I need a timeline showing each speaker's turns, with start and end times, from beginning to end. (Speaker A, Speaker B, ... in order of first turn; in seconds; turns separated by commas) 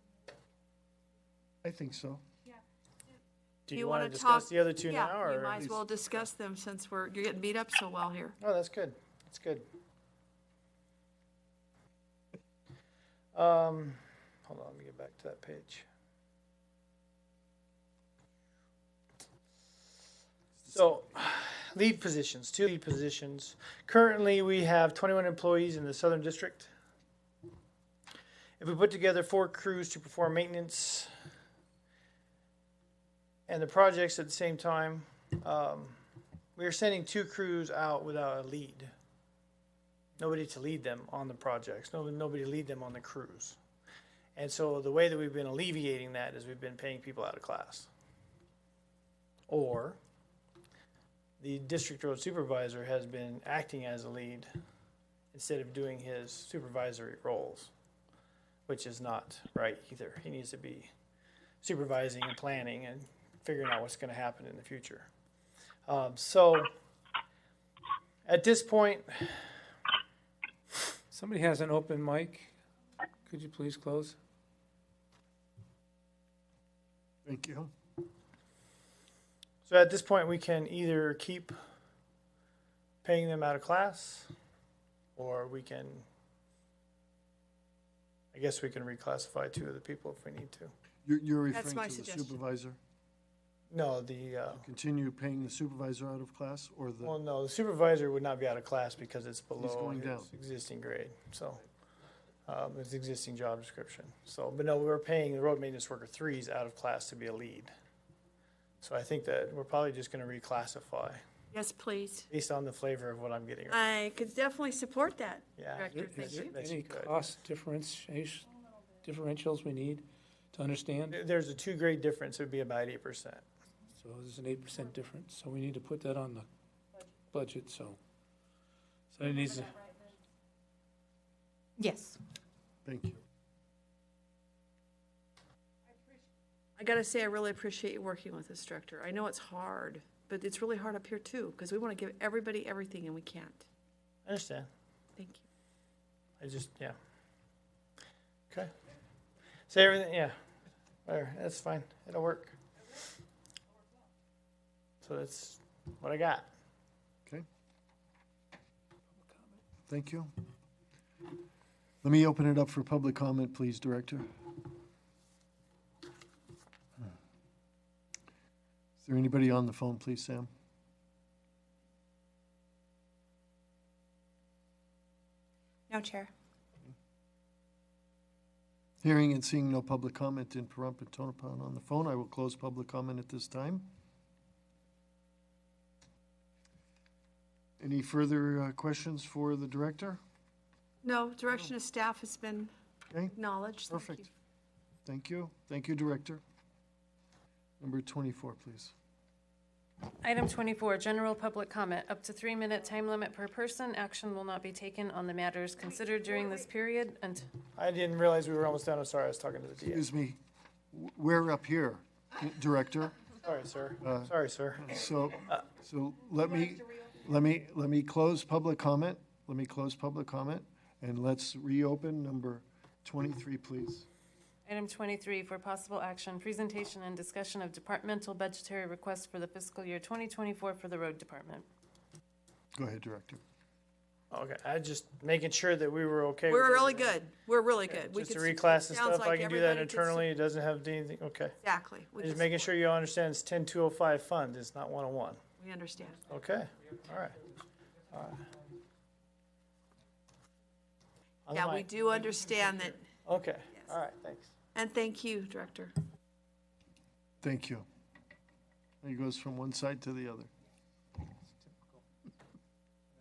Speaker A: 1.6-2.2, Speaker B: 3.7-5.7, Speaker C: 3.7-8.3, Speaker B: 8.4-9.7, Speaker B: 13.3-15.9, Speaker A: 20.6-20.8, Speaker B: 20.7-26.7, Speaker B: 28.6-31.1, Speaker B: 33.5-36.0, Speaker B: 36.5-38.9, Speaker B: 40.2-43.6, Speaker B: 44.4-47.9, Speaker B: 49.5-50.0, Speaker B: 51.4-54.5, Speaker B: 55.3-57.7, Speaker B: 58.7-60.9, Speaker B: 61.6-65.1, Speaker B: 65.9-66.7, Speaker B: 68.3-69.5, Speaker D: 71.1-72.5, Speaker D: 73.3-74.2, Speaker A: 77.3-77.7, Speaker B: 79.6-81.5, Speaker B: 83.0-84.3, Speaker B: 85.2-86.1, Speaker B: 88.3-90.7, Speaker A: 91.0-92.8, Speaker C: 91.5-92.4, Speaker B: 93.7-94.6, Speaker A: 94.5-97.2, Speaker B: 97.0-101.6, Speaker A: 99.6-100.3, Speaker B: 102.5-107.7, Speaker B: 108.8-111.2, Speaker C: 111.5-112.3, Speaker B: 112.3-114.0, Speaker C: 113.7-116.6, Speaker B: 115.5-117.1, Speaker D: 115.9-121.2, Speaker B: 121.1-123.4, Speaker D: 124.0-126.5, Speaker D: 127.1-128.0, Speaker D: 129.1-129.9, Speaker A: 132.8-133.2, Speaker C: 136.8-143.6, Speaker B: 144.2-144.7, Speaker C: 145.2-145.4, Speaker B: 146.4-146.9, Speaker B: 149.7-150.3, Speaker B: 151.1-153.0, Speaker B: 155.0-156.4, Speaker D: 159.3-159.5, Speaker A: 159.9-160.3, Speaker A: 162.0-164.3, Speaker A: 169.0-170.5, Speaker C: 175.9-176.3, Speaker A: 179.0-183.9, Speaker A: 187.8-190.2, Speaker C: 191.0-192.7, Speaker C: 193.3-194.2, Speaker A: 193.9-194.2, Speaker A: 195.1-196.4, Speaker A: 197.8-198.9, Speaker E: 200.2-207.5, Speaker B: 207.7-210.0, Speaker A: 209.8-210.4, Speaker A: 210.9-213.2, Speaker B: 213.4-214.9, Speaker A: 214.0-224.1, Speaker E: 224.7-231.7, Speaker A: 232.7-233.4, Speaker B: 234.3-237.3, Speaker C: 236.5-240.3, Speaker B: 237.8-241.6, Speaker C: 241.6-242.6, Speaker B: 242.2-245.4, Speaker C: 245.6-246.3, Speaker B: 246.3-247.4, Speaker B: 248.1-248.5, Speaker B: 251.5-254.6, Speaker C: 251.5-253.1, Speaker C: 254.7-255.9, Speaker A: 257.4-257.9, Speaker A: 259.0-260.5